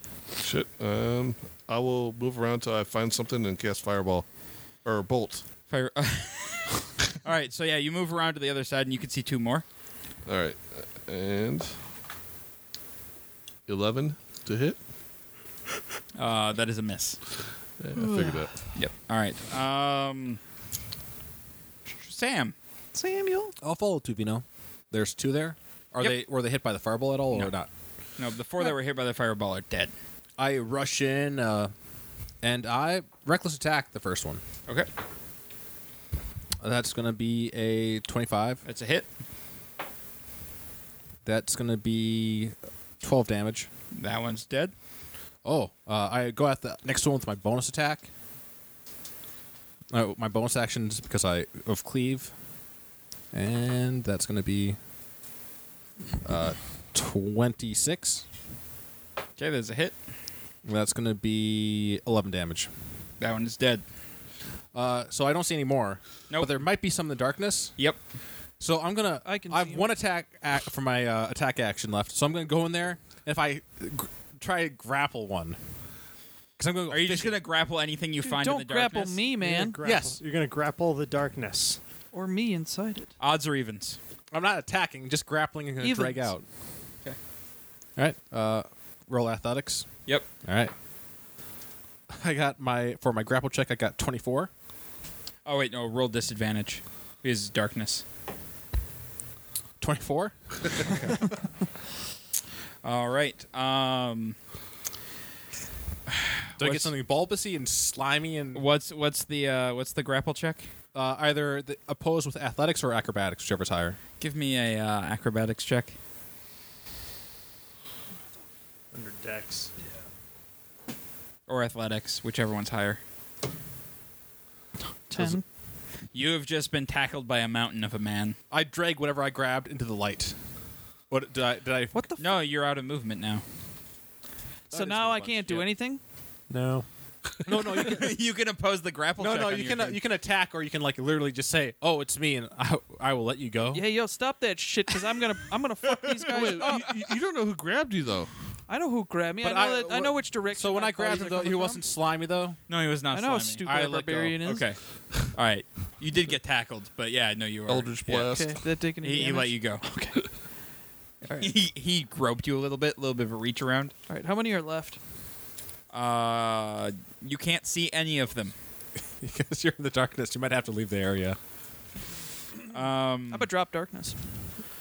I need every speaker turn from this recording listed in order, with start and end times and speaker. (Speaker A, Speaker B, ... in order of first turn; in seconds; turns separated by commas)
Speaker A: 0.4-5.5, Speaker B: 5.7-9.7, Speaker A: 10.2-11.8, Speaker A: 13.7-14.8, Speaker B: 16.2-17.2, Speaker A: 17.8-18.5, Speaker C: 17.9-18.6, Speaker B: 18.7-20.4, Speaker B: 22.0-22.6, Speaker C: 22.9-23.6, Speaker D: 23.6-27.7, Speaker B: 28.2-29.9, Speaker D: 30.4-31.7, Speaker D: 32.4-34.4, Speaker D: 36.6-38.6, Speaker B: 38.6-39.1, Speaker D: 41.2-43.7, Speaker B: 43.9-44.7, Speaker D: 45.4-48.1, Speaker D: 49.9-52.3, Speaker D: 53.3-54.8, Speaker D: 56.2-58.2, Speaker B: 59.4-60.0, Speaker D: 60.6-62.7, Speaker B: 63.2-63.8, Speaker D: 64.7-67.8, Speaker D: 68.6-75.6, Speaker C: 69.2-69.9, Speaker D: 76.6-77.4, Speaker B: 76.9-79.2, Speaker C: 78.2-79.8, Speaker E: 79.4-81.8, Speaker D: 79.8-80.2, Speaker C: 82.1-83.1, Speaker B: 83.2-84.0, Speaker D: 84.3-86.4, Speaker C: 85.8-86.3, Speaker D: 88.0-90.7, Speaker D: 92.1-94.5, Speaker B: 95.5-98.0, Speaker D: 99.8-101.1, Speaker B: 100.9-101.2, Speaker B: 102.8-104.4, Speaker B: 106.1-106.9, Speaker D: 106.6-108.7, Speaker B: 108.5-110.7, Speaker D: 110.9-114.0, Speaker B: 114.2-116.0, Speaker E: 118.9-119.7, Speaker B: 121.5-123.0, Speaker C: 125.1-125.4, Speaker B: 126.1-128.4, Speaker D: 128.5-130.4, Speaker D: 131.1-132.1, Speaker C: 131.9-132.4, Speaker B: 132.2-133.4, Speaker D: 134.7-135.7, Speaker C: 134.7-136.0, Speaker E: 136.5-136.8, Speaker D: 137.4-138.2, Speaker B: 137.7-140.0, Speaker D: 139.2-143.8, Speaker C: 143.7-147.0, Speaker A: 146.3-148.3, Speaker B: 146.4-146.8, Speaker C: 148.7-151.8, Speaker D: 149.4-152.6, Speaker B: 152.7-153.7, Speaker C: 153.1-154.7, Speaker D: 153.6-154.4, Speaker B: 154.4-158.3, Speaker A: 157.7-158.6, Speaker C: 158.2-160.3, Speaker B: 159.0-159.8, Speaker C: 161.2-161.5, Speaker B: 161.3-163.9, Speaker C: 164.1-165.0, Speaker B: 165.9-168.6, Speaker D: 169.2-171.4, Speaker B: 172.7-173.5, Speaker C: 173.3-174.2